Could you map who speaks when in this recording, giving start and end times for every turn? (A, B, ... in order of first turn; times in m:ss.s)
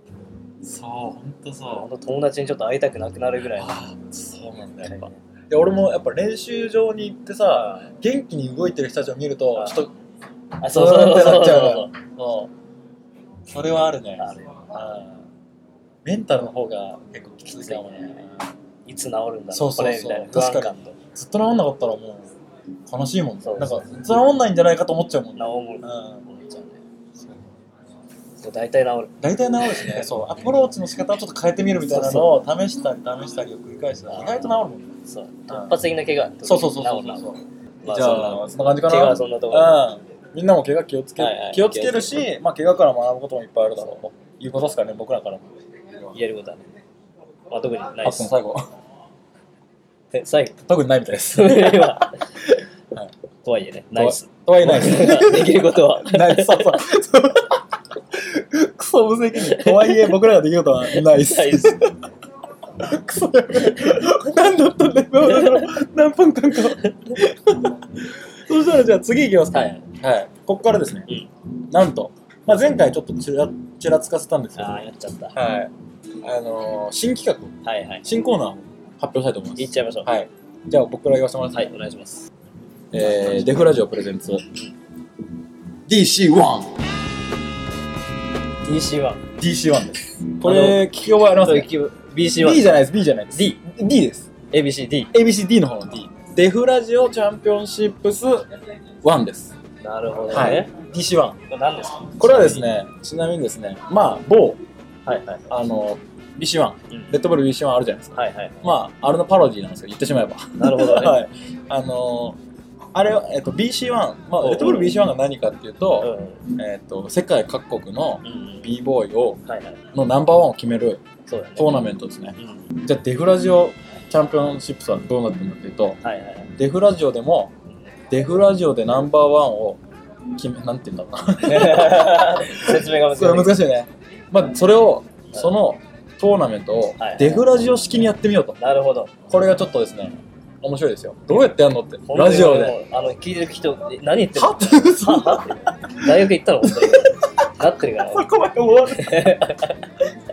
0:00.6-0:01.9 A
0:01.7-0:03.8 B
0:03.5-0:09.9 A
0:04.8-0:05.2 B
0:07.5-0:07.9 B
0:09.6-0:09.8 B
0:10.6-0:11.9 B
0:10.6-0:12.5 A
0:13.5-0:15.2 A
0:14.2-0:14.9 B
0:16.0-0:18.4 A
0:17.5-0:18.2 B
0:18.9-0:21.0 B
0:19.5-0:22.3 A
0:22.9-0:26.2 A
0:23.4-0:23.9 B
0:25.4-0:26.8 B
0:28.4-0:30.1 B
0:29.2-0:35.0 A
0:31.9-0:32.4 B
0:34.1-0:34.5 B
0:35.1-0:37.3 B
0:35.5-0:35.8 A
0:36.4-0:45.5 A
0:37.8-0:39.8 B
0:41.2-0:42.2 B
0:46.1-0:46.7 B
0:47.5-0:48.3 B
0:48.0-0:48.7 A
0:50.1-0:50.6 B
0:50.6-0:53.1 A
0:51.3-0:52.3 B
0:53.4-0:56.8 B
0:54.0-1:02.0 A
0:59.4-1:00.2 B
1:00.9-1:01.8 B
1:02.8-1:11.1 A
1:05.2-1:05.8 B
1:06.8-1:07.2 B
1:09.5-1:09.8 B
1:11.7-1:14.8 A
1:14.6-1:15.4 B
1:15.4-1:15.7 A
1:16.2-1:21.7 A
1:17.6-1:18.1 B
1:19.6-1:20.1 B
1:21.5-1:22.2 B
1:22.9-1:24.5 A
1:23.1-1:23.5 B
1:25.9-1:26.8 A
1:28.6-1:29.2 B
1:29.4-1:31.7 A
1:30.4-1:30.8 B
1:31.4-1:32.7 B
1:32.4-1:34.3 A
1:34.5-1:35.1 B
1:35.1-1:38.5 A
1:39.0-1:39.6 A
1:39.8-1:40.7 B
1:40.3-1:41.4 A
1:41.5-1:42.7 B
1:42.2-1:44.6 A
1:45.1-1:45.5 B
1:45.5-1:52.4 A
1:46.9-1:47.2 B
1:48.2-1:48.7 B
1:50.6-1:51.2 B
1:52.9-1:59.4 A
1:54.4-1:55.0 B
1:56.0-1:56.5 B
1:58.2-1:58.7 B
1:59.5-1:59.8 B
1:59.9-2:01.0 A
2:01.3-2:01.7 B
2:01.6-2:06.0 A
2:02.4-2:02.8 B
2:06.0-2:06.5 B
2:06.6-2:07.5 A
2:08.1-2:09.8 A
2:10.4-2:18.6 A
2:11.4-2:13.6 B
2:17.0-2:17.5 B
2:18.6-2:19.1 B
2:19.3-2:22.8 A
2:22.1-2:28.3 B
2:24.3-2:27.5 A
2:28.0-2:29.4 A
2:28.9-2:29.9 B